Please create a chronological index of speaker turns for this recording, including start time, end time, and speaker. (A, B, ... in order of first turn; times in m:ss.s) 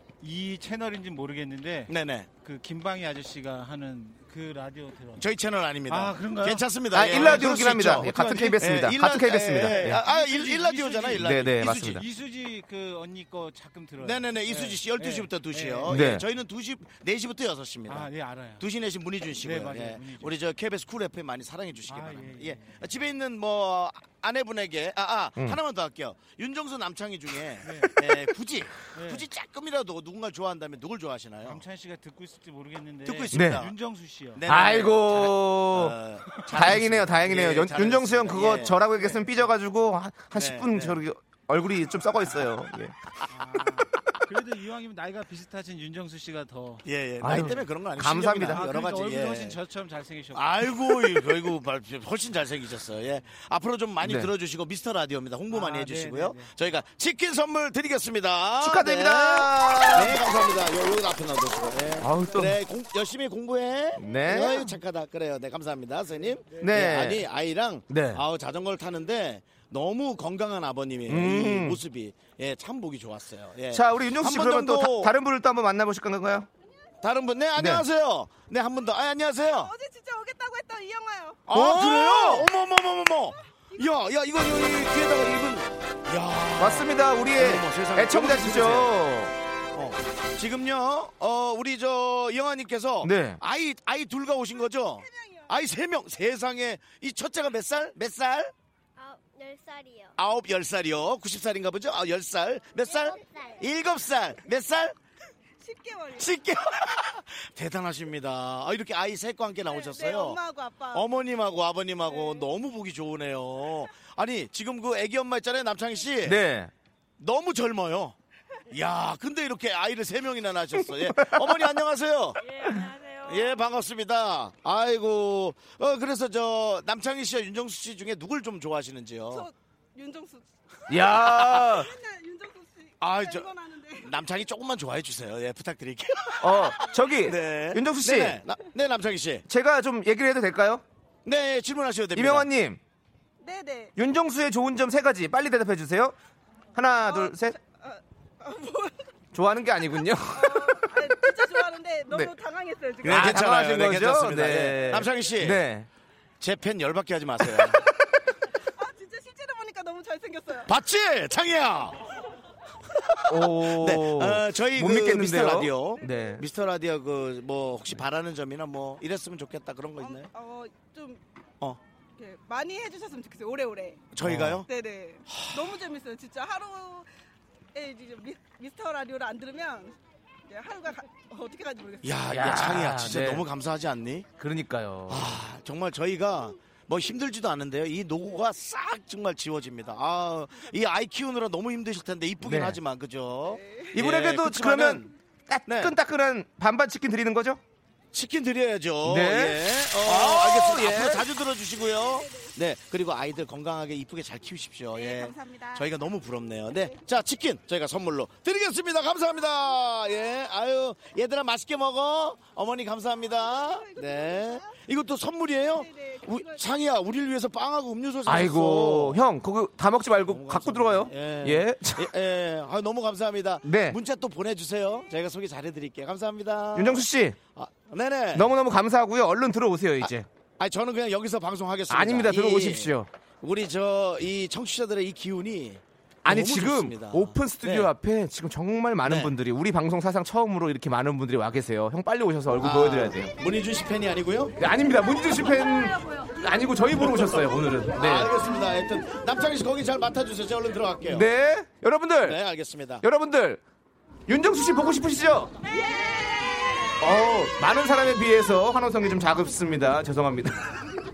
0:00.2-0:05.2 A
0:01.9-0:02.3 B
0:05.2-0:11.9 B
0:05.9-0:06.7 A
0:06.9-0:10.0 C
0:09.7-0:16.0 A
0:11.2-0:12.0 C
0:14.0-0:31.6 B
0:15.9-0:16.2 C
0:17.9-0:18.6 A
0:19.4-0:20.5 A
0:21.9-0:22.8 A
0:27.6-0:28.1 A
0:28.9-0:29.2 A
0:31.4-0:34.4 A
0:33.0-0:33.7 B
0:33.3-0:33.6 C
0:34.3-0:38.8 B
0:34.4-0:35.9 C
0:36.5-0:43.0 C
0:38.9-0:39.4 A
0:40.3-0:41.0 B
0:43.3-0:46.8 A
0:46.8-0:49.6 B
0:47.2-0:48.6 C
0:48.5-0:51.3 A
0:50.3-1:15.1 B
0:54.0-0:54.3 C
0:55.5-0:56.5 A
0:58.6-1:00.2 C
1:02.0-1:02.6 C
1:04.0-1:04.7 C
1:06.6-1:07.2 C
1:07.9-1:08.2 C
1:11.1-1:11.8 C
1:13.7-1:16.5 C
1:17.0-1:19.7 B
1:17.6-1:17.8 C
1:19.5-1:21.4 D
1:21.5-1:28.9 B
1:21.5-1:22.5 C
1:26.6-1:29.3 C
1:29.7-1:38.5 B
1:33.0-1:33.4 C
1:35.0-1:35.5 D
1:39.0-1:40.1 E
1:40.2-1:45.0 B
1:42.8-1:43.6 E
1:45.6-1:46.4 D
1:46.2-1:50.4 B
1:49.7-1:51.0 D
1:50.9-1:56.4 B
1:52.1-1:52.4 D
1:56.2-1:56.7 C
1:57.2-1:58.2 B
1:58.7-2:02.4 B
2:01.0-2:01.5 C
2:02.6-2:03.2 D
2:03.2-2:09.4 B
2:09.3-2:14.1 D
2:10.9-2:11.9 C
2:13.0-2:19.4 B
2:16.4-2:18.4 C
2:19.5-2:20.8 C
2:21.2-2:22.5 B
2:22.1-2:22.8 C
2:23.4-2:23.9 D
2:24.0-2:26.1 C
2:26.7-2:27.6 C
2:27.0-2:29.0 D
2:29.3-2:30.9 C
2:30.3-2:33.3 D
2:33.0-2:35.6 B
2:33.0-2:35.9 C
2:36.4-2:37.8 B
2:38.8-2:40.7 D
2:40.6-2:42.0 B
2:43.1-2:50.3 B
2:43.3-2:46.4 C
2:50.0-2:51.2 D
2:52.2-2:54.1 D
2:54.1-2:54.7 B
2:54.2-2:54.6 C
2:54.7-2:57.1 D
2:57.7-2:59.9 D
3:00.5-3:02.2 D
3:02.0-3:04.2 B
3:02.3-3:03.4 C
3:04.4-3:05.4 C
3:05.1-3:15.1 B
3:12.4-3:12.8 C
3:13.5-3:13.9 D
3:13.9-3:17.6 C
3:15.7-3:15.9 B
3:18.1-3:39.2 B
3:19.0-3:21.2 C
3:24.9-3:25.9 D
3:33.3-3:34.7 D
3:35.6-3:36.6 D
3:38.2-3:42.1 C
3:40.3-3:47.0 B
3:43.6-3:44.0 C
3:46.7-3:47.4 C
3:47.6-3:48.5 B
3:48.3-3:50.3 C
3:50.6-3:57.9 B
3:51.9-3:53.1 C
3:56.2-4:03.3 C
3:59.0-3:59.3 B
4:02.6-4:04.5 B
4:04.6-4:08.3 C
4:07.9-4:11.2 B
4:11.1-4:12.4 C
4:12.2-4:13.0 B
4:13.0-4:13.6 C
4:14.3-4:15.5 C
4:17.0-4:20.8 C